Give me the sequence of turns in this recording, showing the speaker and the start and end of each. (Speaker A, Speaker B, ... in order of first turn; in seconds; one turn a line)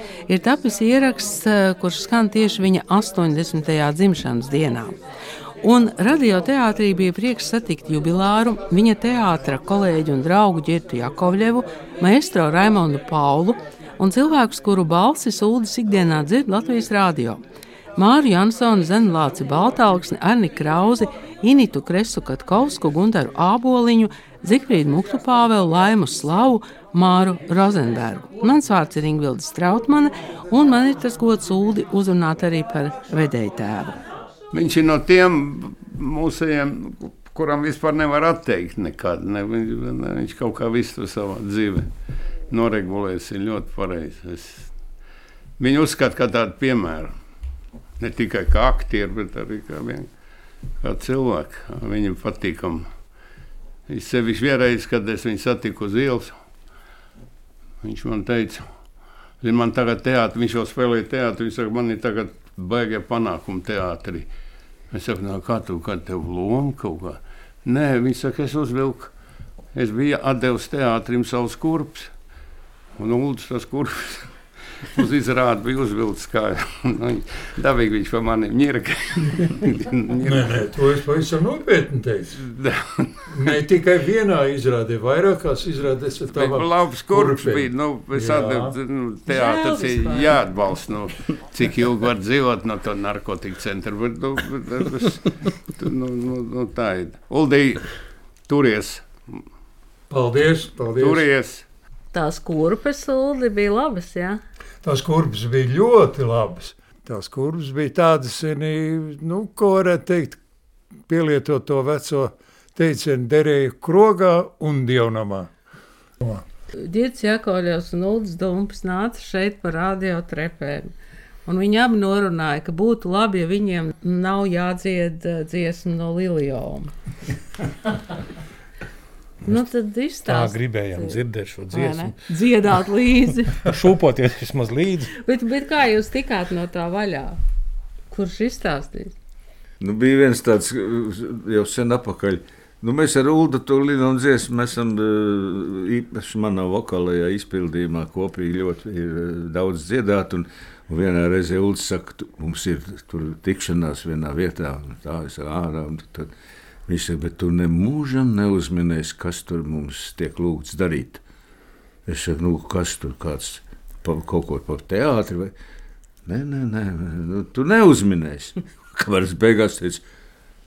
Speaker A: 0.3-5.0
Speaker A: 5.6-17.4
Speaker A: 18.0-34.0
Speaker B: 34.5-41.9
Speaker B: 42.5-44.7
Speaker B: 45.6-47.1
Speaker B: 48.0-50.1
Speaker B: 50.8-52.9
Speaker B: 53.9-56.4
Speaker B: 57.8-58.7
Speaker B: 59.4-64.3
Speaker B: 64.9-69.1
Speaker B: 69.7-72.1
Speaker B: 73.0-74.3
Speaker B: 75.0-80.5
Speaker C: 80.2-82.4
Speaker B: 82.4-83.2
Speaker C: 83.3-88.7
Speaker B: 86.3-97.9
Speaker A: 89.3-90.4
Speaker B: 98.5-99.4
Speaker C: 100.1-101.3
Speaker B: 101.0-101.7
Speaker A: 102.1-104.4
Speaker C: 104.8-110.4
Speaker C: 111.1-115.5
Speaker A: 116.8-120.9
Speaker A: 121.5-126.9
Speaker D: 129.4-129.7
Speaker A: 129.5-133.6
Speaker D: 130.2-132.1
Speaker D: 133.6-135.1
Speaker A: 135.2-137.4
Speaker A: 138.1-139.1
Speaker E: 139.8-156.3
Speaker E: 156.9-161.2
Speaker E: 162.1-165.5
Speaker E: 166.3-170.0